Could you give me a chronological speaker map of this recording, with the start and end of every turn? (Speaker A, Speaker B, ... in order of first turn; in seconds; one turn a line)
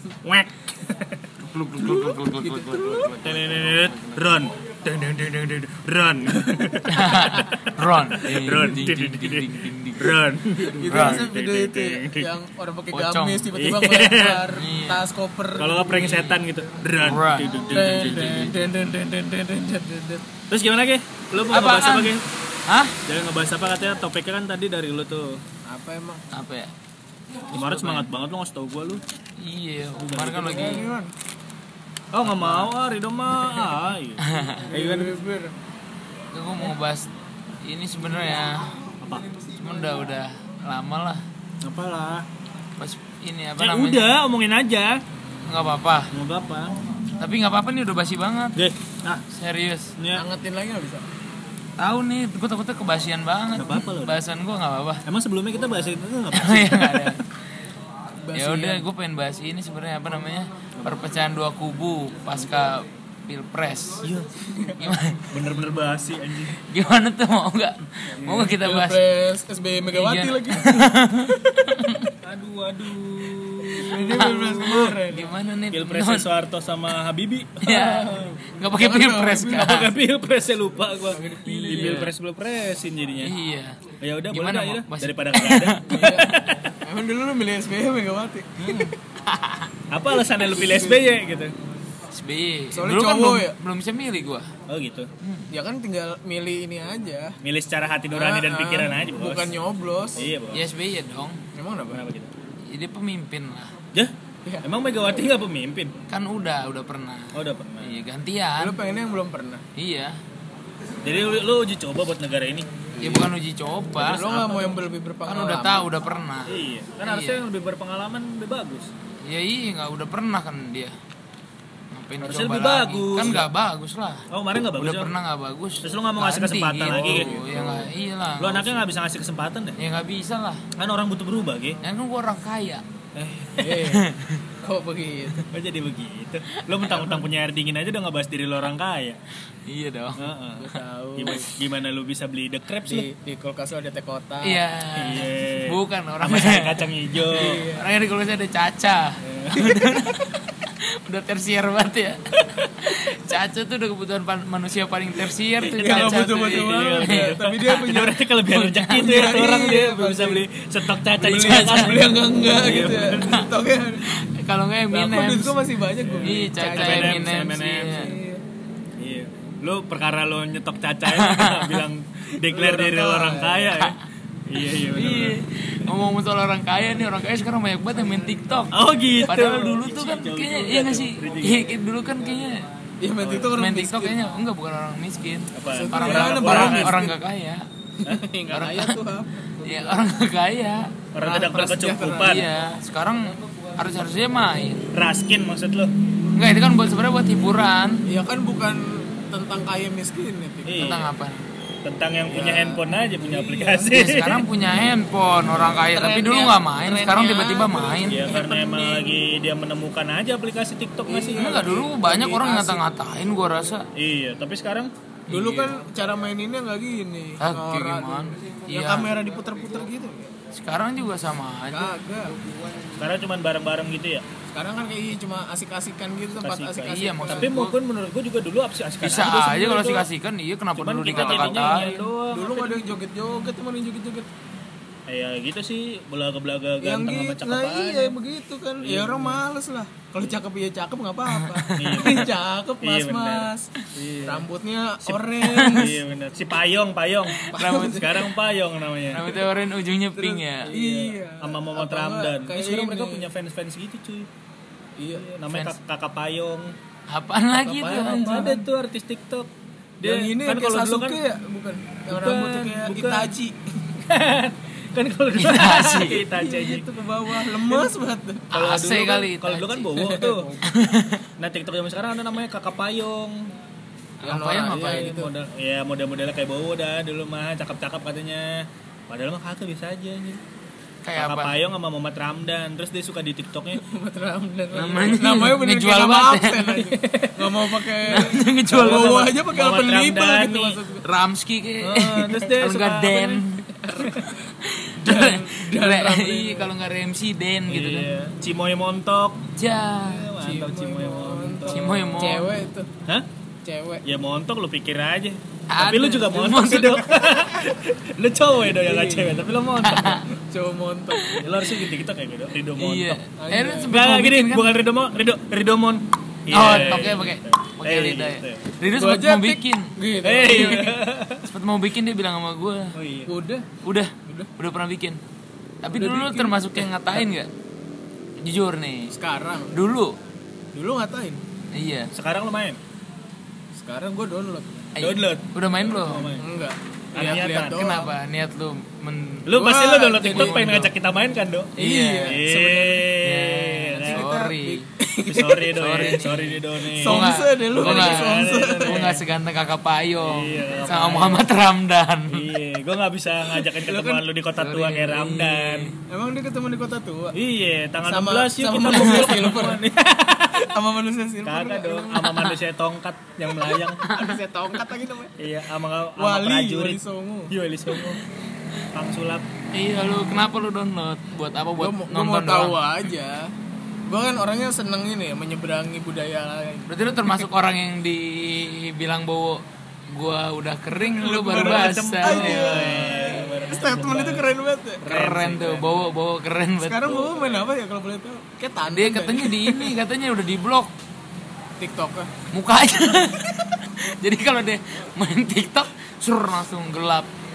Speaker A: 0.2-1.2
Speaker B: 1.4-4.2
Speaker C: 1.8-3.2
Speaker A: 3.2-12.3
Speaker C: 6.3-6.8
Speaker B: 6.9-10.2
Speaker C: 10.7-15.9
Speaker B: 10.8-11.2
Speaker B: 12.9-13.5
Speaker A: 13.5-14.4
Speaker B: 14.5-15.0
Speaker A: 15.6-18.5
Speaker B: 15.9-16.4
Speaker B: 17.0-18.6
Speaker C: 17.7-20.2
Speaker A: 20.5-22.2
Speaker B: 21.5-22.1
Speaker B: 22.7-23.0
Speaker A: 23.1-25.4
Speaker C: 25.7-26.2
Speaker B: 26.3-26.7
Speaker B: 27.5-28.1
Speaker A: 27.5-29.0
Speaker B: 29.4-30.9
Speaker A: 30.0-30.8
Speaker C: 30.4-31.1
Speaker A: 32.1-35.1
Speaker B: 32.2-32.7
Speaker B: 34.2-34.7
Speaker C: 34.7-35.5
Speaker B: 36.3-37.1
Speaker B: 37.6-38.8
Speaker B: 39.6-41.2
Speaker A: 41.6-42.2
Speaker B: 42.8-44.1
Speaker A: 43.6-45.0
Speaker B: 45.4-46.1
Speaker A: 46.1-46.8
Speaker B: 47.2-48.6
Speaker A: 48.6-49.2
Speaker B: 49.3-49.9
Speaker A: 50.0-50.2
Speaker C: 50.1-51.0
Speaker B: 51.8-55.0
Speaker A: 53.6-54.2
Speaker A: 55.1-57.1
Speaker B: 56.3-57.2
Speaker C: 58.2-58.9
Speaker B: 58.3-64.1
Speaker A: 64.0-64.8
Speaker B: 64.7-65.3
Speaker A: 65.3-66.6
Speaker B: 66.7-69.0
Speaker A: 68.2-68.5
Speaker C: 68.5-71.3
Speaker B: 69.9-72.1
Speaker A: 72.2-75.0
Speaker C: 73.8-75.3
Speaker B: 73.8-76.3
Speaker A: 75.7-78.4
Speaker B: 77.6-79.9
Speaker C: 78.7-79.8
Speaker A: 79.4-83.3
Speaker C: 81.1-82.1
Speaker B: 81.7-82.1
Speaker B: 83.2-86.3
Speaker A: 84.0-86.7
Speaker C: 85.9-88.9
Speaker A: 88.6-88.9
Speaker B: 89.2-89.7
Speaker A: 89.9-91.5
Speaker C: 90.5-91.0
Speaker B: 92.1-94.5
Speaker C: 92.7-93.6
Speaker A: 94.7-95.1
Speaker B: 95.2-95.5
Speaker C: 95.5-97.4
Speaker A: 97.4-99.5
Speaker C: 98.1-100.3
Speaker A: 100.2-100.7
Speaker B: 100.5-101.4
Speaker C: 101.5-102.0
Speaker A: 101.9-102.3
Speaker B: 102.7-103.8
Speaker A: 103.9-105.9
Speaker B: 106.1-108.8
Speaker A: 107.3-107.9
Speaker C: 108.6-109.6
Speaker B: 109.8-110.2
Speaker A: 111.0-112.7
Speaker C: 113.0-113.3
Speaker B: 113.0-114.2
Speaker A: 114.0-114.8
Speaker C: 114.0-115.9
Speaker B: 115.2-117.4
Speaker A: 116.5-118.9
Speaker B: 119.2-120.9
Speaker B: 121.9-124.2
Speaker A: 122.2-123.5
Speaker A: 124.3-125.1
Speaker B: 124.8-128.8
Speaker A: 125.8-129.8
Speaker C: 127.0-127.4
Speaker B: 129.8-130.6
Speaker A: 130.8-131.8
Speaker B: 131.8-132.8
Speaker A: 133.2-133.8
Speaker C: 133.6-134.1
Speaker B: 133.8-134.4
Speaker C: 134.6-135.5
Speaker A: 135.5-139.2
Speaker B: 136.5-137.2
Speaker B: 139.7-140.2
Speaker A: 140.2-143.1
Speaker C: 140.6-141.4
Speaker C: 142.8-144.6
Speaker B: 144.4-146.8
Speaker A: 145.0-147.7
Speaker C: 147.3-147.9
Speaker B: 147.7-157.8
Speaker A: 149.2-149.7
Speaker C: 155.7-158.2
Speaker A: 156.6-163.5
Speaker B: 158.5-159.0
Speaker C: 158.9-160.4
Speaker C: 161.1-164.1
Speaker B: 161.3-162.0
Speaker B: 164.0-165.6
Speaker C: 164.9-168.4
Speaker A: 166.0-168.1
Speaker B: 166.2-168.2
Speaker A: 169.0-175.4
Speaker B: 171.1-171.8
Speaker C: 172.4-173.8
Speaker B: 174.9-182.7
Speaker A: 178.7-181.8
Speaker C: 183.0-184.2
Speaker A: 183.2-183.5
Speaker B: 183.5-187.7
Speaker A: 185.5-187.0
Speaker C: 185.6-187.2
Speaker C: 188.0-189.9
Speaker B: 188.5-189.0
Speaker B: 189.6-191.0
Speaker A: 191.1-192.5
Speaker C: 191.2-192.5
Speaker B: 192.2-194.8
Speaker A: 194.9-195.9
Speaker B: 196.3-198.1
Speaker C: 198.1-200.9
Speaker A: 200.7-201.1
Speaker B: 200.8-201.4
Speaker A: 201.8-204.4
Speaker C: 202.3-203.9
Speaker B: 203.9-208.3
Speaker C: 205.9-209.2
Speaker A: 208.1-211.8
Speaker C: 211.1-212.8
Speaker B: 211.4-213.9
Speaker A: 213.9-214.9
Speaker B: 215.3-215.7
Speaker C: 215.3-220.3
Speaker B: 217.4-219.1
Speaker B: 220.5-222.0
Speaker C: 221.7-222.3
Speaker A: 223.0-224.2
Speaker C: 224.5-227.5
Speaker A: 226.4-230.1
Speaker B: 226.8-227.7
Speaker B: 229.0-231.9
Speaker A: 230.8-232.9
Speaker C: 231.1-234.3
Speaker A: 235.1-238.2
Speaker C: 236.8-243.7
Speaker A: 238.8-239.4
Speaker B: 241.3-242.2
Speaker A: 241.8-244.5
Speaker C: 244.2-246.0
Speaker A: 245.0-249.4
Speaker B: 245.4-245.8
Speaker B: 247.3-248.3
Speaker C: 247.5-248.2
Speaker B: 249.1-250.7
Speaker C: 250.2-253.3
Speaker A: 250.7-254.3
Speaker C: 255.0-255.3
Speaker A: 255.2-256.7
Speaker B: 257.1-258.6
Speaker A: 257.6-261.2
Speaker C: 257.9-258.6
Speaker C: 260.0-263.6
Speaker A: 262.1-263.3
Speaker A: 264.0-266.9
Speaker B: 265.4-266.2
Speaker C: 266.3-268.5
Speaker A: 267.4-267.9
Speaker B: 268.5-270.0
Speaker A: 268.5-270.6
Speaker C: 269.9-270.6
Speaker B: 270.6-271.2
Speaker A: 271.4-273.5
Speaker B: 274.2-275.1
Speaker C: 274.2-275.3
Speaker A: 274.6-280.4
Speaker B: 281.0-281.6
Speaker A: 281.1-283.8
Speaker C: 283.8-291.0
Speaker B: 284.7-286.9
Speaker A: 287.0-287.5
Speaker B: 288.0-289.2
Speaker A: 288.1-290.8
Speaker B: 291.0-298.1
Speaker A: 291.8-293.4
Speaker C: 293.9-294.1
Speaker C: 295.0-296.7
Speaker A: 297.7-299.5
Speaker B: 299.6-300.2
Speaker A: 300.0-302.3
Speaker C: 300.4-302.9
Speaker B: 301.7-302.6
Speaker C: 303.6-304.0
Speaker A: 304.0-310.2
Speaker B: 305.7-307.4
Speaker C: 308.7-309.5
Speaker B: 309.8-310.2
Speaker C: 310.3-311.4
Speaker B: 311.1-311.7
Speaker A: 311.4-313.2
Speaker B: 312.8-314.8
Speaker C: 313.4-313.9
Speaker A: 313.9-318.6
Speaker B: 316.5-319.9
Speaker C: 318.9-321.0
Speaker A: 320.2-321.5
Speaker B: 321.4-323.0
Speaker A: 322.9-323.3
Speaker C: 323.3-323.7
Speaker B: 323.8-325.2
Speaker B: 325.8-327.5
Speaker C: 325.9-327.2
Speaker B: 328.4-329.1
Speaker C: 329.1-329.8
Speaker B: 329.7-330.2
Speaker C: 330.7-331.4
Speaker B: 331.7-332.1
Speaker A: 332.1-332.8
Speaker C: 333.8-334.9
Speaker B: 335.0-336.3
Speaker A: 335.0-336.5
Speaker C: 336.4-338.1
Speaker A: 337.1-337.9
Speaker B: 337.7-339.5
Speaker A: 339.5-344.4
Speaker C: 339.5-340.7
Speaker B: 340.3-340.9
Speaker C: 341.8-343.1
Speaker B: 341.8-342.4
Speaker B: 343.2-344.8
Speaker C: 344.0-346.1
Speaker A: 345.3-349.2
Speaker B: 345.8-352.5
Speaker C: 346.9-349.1
Speaker A: 350.2-351.4
Speaker C: 350.6-351.4
Speaker A: 352.3-355.9
Speaker C: 353.6-354.2
Speaker B: 354.6-355.9
Speaker C: 356.1-357.4
Speaker A: 357.3-360.7
Speaker C: 358.0-359.8
Speaker C: 360.6-362.3
Speaker A: 361.4-364.1
Speaker B: 362.2-362.5
Speaker B: 363.7-364.4
Speaker C: 364.0-365.4
Speaker A: 365.4-367.0
Speaker C: 366.2-367.5
Speaker A: 367.5-368.2
Speaker A: 368.9-369.4
Speaker B: 369.7-372.8
Speaker C: 371.8-373.5
Speaker C: 374.1-377.4
Speaker B: 376.9-383.3
Speaker A: 381.1-384.5
Speaker C: 381.2-385.1
Speaker A: 385.0-386.1
Speaker B: 385.1-387.3
Speaker C: 386.8-389.9
Speaker B: 388.9-390.9
Speaker C: 391.8-392.3
Speaker B: 392.5-397.3